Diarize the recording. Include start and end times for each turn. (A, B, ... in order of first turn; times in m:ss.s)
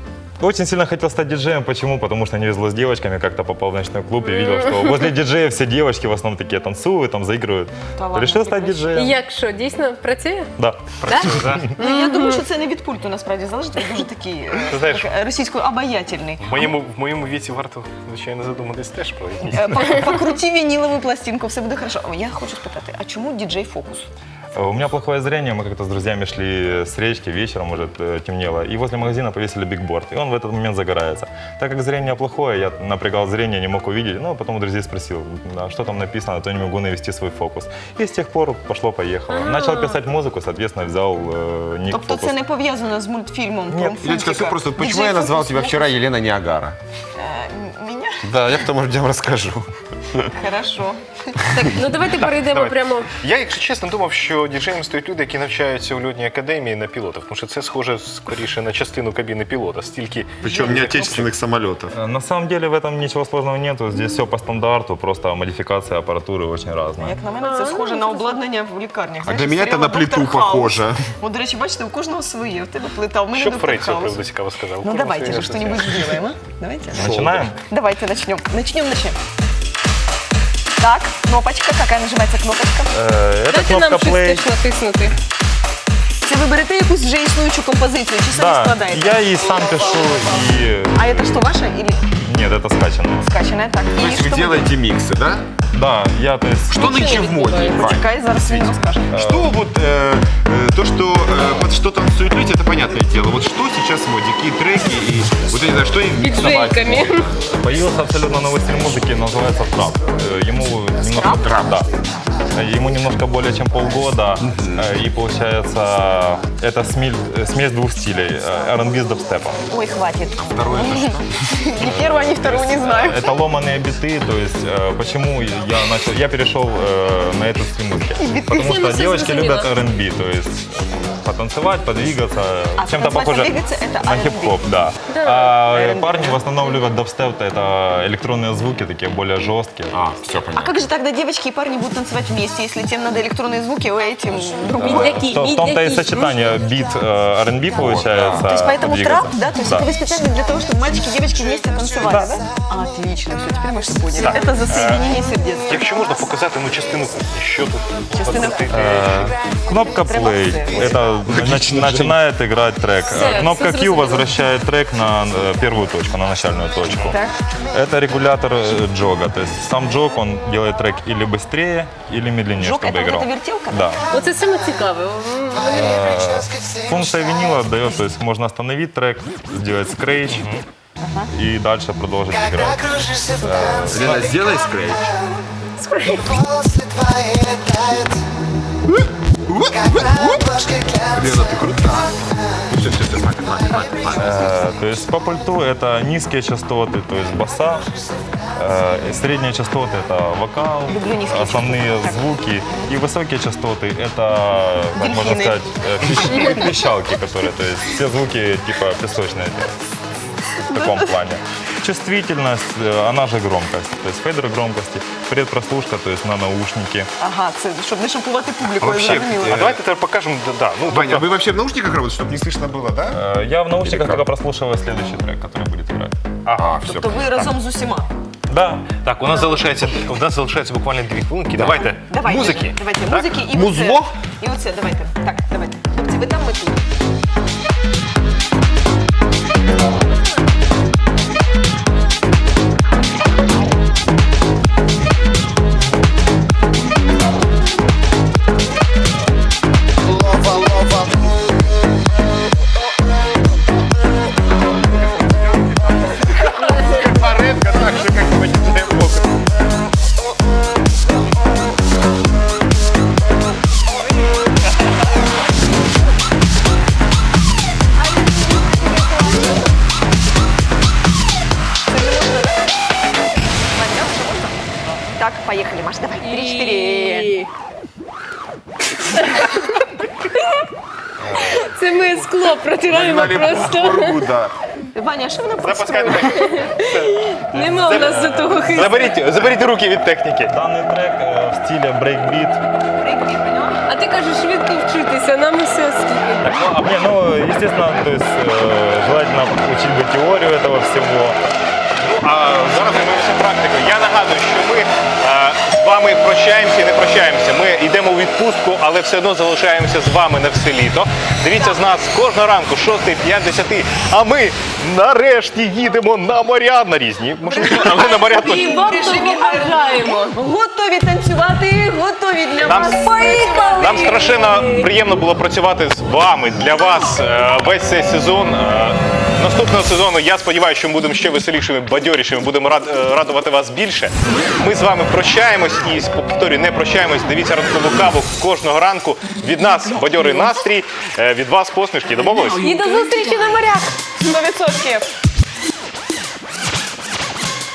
0:00.4-0:09.2 A
0:04.3-0:05.0 B
0:08.0-0:09.1 C
0:08.9-0:10.5 B
0:10.6-0:11.6 A
0:11.0-0:11.7 D
0:11.8-0:12.4 B
0:11.8-0:16.7 C
0:14.7-0:15.1 D
0:16.4-0:19.8 D
0:19.5-0:24.1 C
0:24.5-0:42.3 A
0:39.3-0:40.0 B
0:41.9-0:46.0 C
0:43.7-0:44.0 A
0:44.0-0:46.8 E
0:47.2-0:48.2 C
0:48.2-0:50.3 E
0:50.3-0:51.0 C
0:51.5-0:53.1 B
0:52.1-1:01.3 D
1:00.4-1:01.9 E
1:01.9-1:07.2 A
1:07.0-1:14.2 C
1:07.4-1:08.2 B
1:09.2-1:11.0 E
1:13.3-1:16.2 D
1:14.8-1:19.2 C
1:16.9-1:17.5 E
1:16.9-1:17.6 A
1:20.8-1:22.9 C
1:22.9-1:24.4 A
1:23.5-1:25.2 B
1:26.2-1:32.0 C
1:28.3-1:31.4 A
1:32.2-1:33.3 A
1:33.2-1:34.7 C
1:34.0-1:35.4 E
1:35.7-1:37.0 A
1:36.7-1:38.6 E
1:36.8-1:37.9 B
1:37.6-1:39.2 C
1:39.1-1:39.5 A
1:39.1-1:47.3 E
1:46.2-1:47.3 B
1:47.4-1:51.9 A
1:51.1-1:51.5 C
1:51.4-1:51.8 E
1:52.5-1:59.6 A
1:54.4-1:54.9 E
1:59.7-2:03.3 C
2:00.4-2:01.3 E
2:01.8-2:20.0 A
2:08.1-2:08.8 C
2:08.6-2:09.8 B
2:12.8-2:14.6 C
2:15.1-2:15.5 B
2:15.6-2:16.7 C
2:19.9-2:20.8 E
2:20.5-2:25.4 C
2:24.8-2:29.9 A
2:24.8-2:26.4 B
2:27.8-2:28.5 E
2:28.4-2:35.9 C
2:32.0-2:32.3 A
2:34.2-2:35.0 D
2:35.7-2:39.3 D
2:38.1-2:38.8 C
2:38.7-2:54.0 A
2:39.8-2:41.1 C
2:41.2-2:42.2 E
2:43.1-2:44.3 B
2:47.1-2:47.3 C
2:52.6-2:54.0 C
2:54.1-2:55.8 B
2:55.7-3:00.5 A
3:00.3-3:00.6 D
3:01.0-3:01.3 C
3:01.3-3:04.3 A
3:03.9-3:05.1 E
3:05.8-3:06.4 B
3:09.0-3:10.5 E
3:11.1-3:12.1 E
3:12.7-3:14.7 E
3:14.1-3:17.8 A
3:18.6-3:29.8 A
3:20.9-3:22.2 C
3:25.0-3:25.6 C
3:26.3-3:26.6 C
3:30.6-3:31.1 C
3:30.6-3:37.1 A
3:37.2-3:39.7 C
3:38.8-3:39.8 E
3:38.8-3:41.4 D
3:40.9-3:43.2 E
3:43.1-3:46.2 A
3:43.8-3:44.2 E
3:46.4-3:46.8 D
3:46.5-3:47.2 E
3:46.8-3:48.1 C
3:48.5-3:48.8 A
3:48.9-3:53.3 D
3:51.6-3:52.6 E
3:51.9-3:56.8 C
3:53.5-3:54.1 E
4:16.4-4:19.2 E
4:28.1-4:29.5 C
4:31.9-4:32.6 C
4:33.7-4:37.3 C
4:36.2-4:37.5 B
4:39.3-4:39.5 B
4:41.3-4:44.2 B
4:42.9-4:44.5 E
4:44.9-4:46.8 C
4:45.6-4:50.5 D
4:46.4-4:49.1 B
4:50.5-4:52.6 A
4:53.0-4:53.8 C
4:53.9-4:56.5 B
4:56.4-4:57.0 D
4:56.7-5:01.4 A
5:02.0-5:18.7 D
5:17.5-5:24.1 C
5:17.9-5:20.2 B
5:22.6-5:23.0 D
5:23.0-5:24.9 B
5:23.8-5:42.7 D
5:42.5-5:43.9 B
5:44.2-5:45.1 C